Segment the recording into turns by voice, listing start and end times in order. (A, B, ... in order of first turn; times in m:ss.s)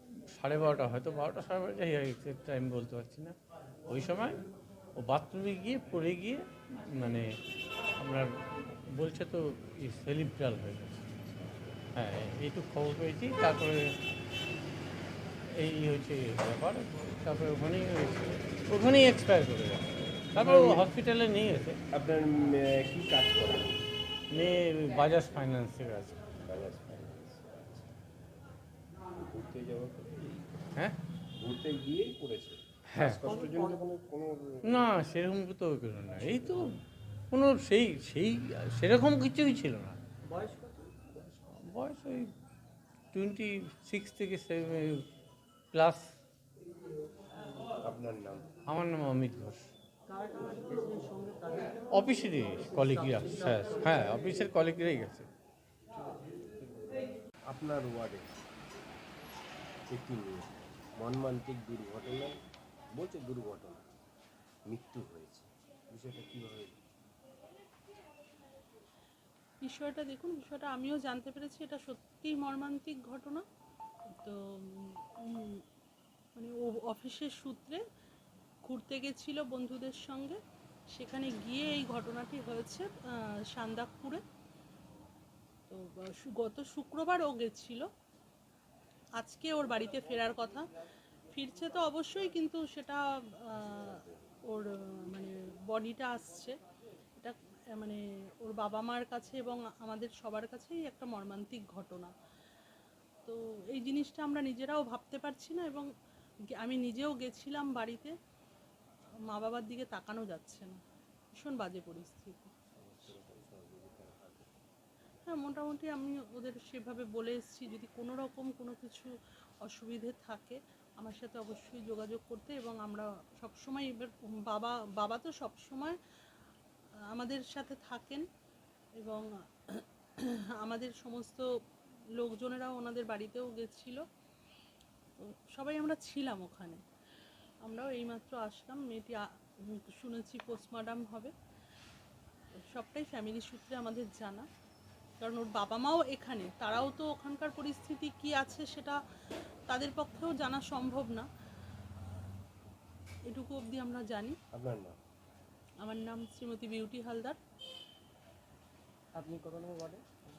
0:00.3-0:03.4 A
0:03.9-0:04.4 A
0:05.0-0:07.3 A
0:08.0-0:08.3 A
0:08.9-0:11.1 A
0:11.2-0:11.7 B
0:12.0-0:13.9 A
0:15.5-0:21.8 A
0:20.4-0:20.9 B
0:21.9-0:23.8 B
0:24.3-0:26.2 A
0:26.4-0:27.9 B
0:29.2-0:30.8 B
0:31.4-0:34.9 B
0:32.9-0:33.2 A
0:33.3-0:33.8 C
0:34.7-0:36.8 A
0:36.2-0:36.6 B
0:37.3-0:40.0 A
0:40.2-0:41.0 C
0:41.3-0:42.3 A
0:43.1-0:45.1 A
0:45.7-0:46.0 A
0:47.8-0:48.5 B
0:48.7-0:49.7 A
0:50.1-0:54.2 C
0:51.9-0:55.3 A
0:57.5-0:58.3 B
0:59.9-1:02.3 B
1:03.0-1:03.8 B
1:04.7-1:06.7 B
1:09.6-1:13.4 D
1:14.2-1:15.6 D
1:16.4-1:17.8 D
1:18.7-1:20.4 D
1:20.9-1:22.9 D
1:23.5-1:24.2 D
1:25.7-1:27.9 D
1:29.2-1:30.7 D
1:31.3-1:33.9 D
1:33.6-1:34.3 B
1:34.5-1:36.6 D
1:37.2-1:42.1 D
1:43.3-1:45.9 D
1:46.6-1:48.1 D
1:49.3-1:50.8 D
1:51.4-1:52.5 D
1:52.8-1:54.5 B
1:55.3-1:59.1 D
1:59.6-2:06.0 D
2:07.1-2:08.3 D
2:09.0-2:11.4 D
2:12.2-2:14.0 D
2:15.2-2:16.8 D
2:17.6-2:21.3 D
2:22.7-2:24.5 D
2:25.2-2:29.0 D
2:29.7-2:31.3 D
2:33.3-2:34.4 D
2:34.5-2:35.0 B
2:35.8-2:37.4 D
2:39.2-2:40.1 C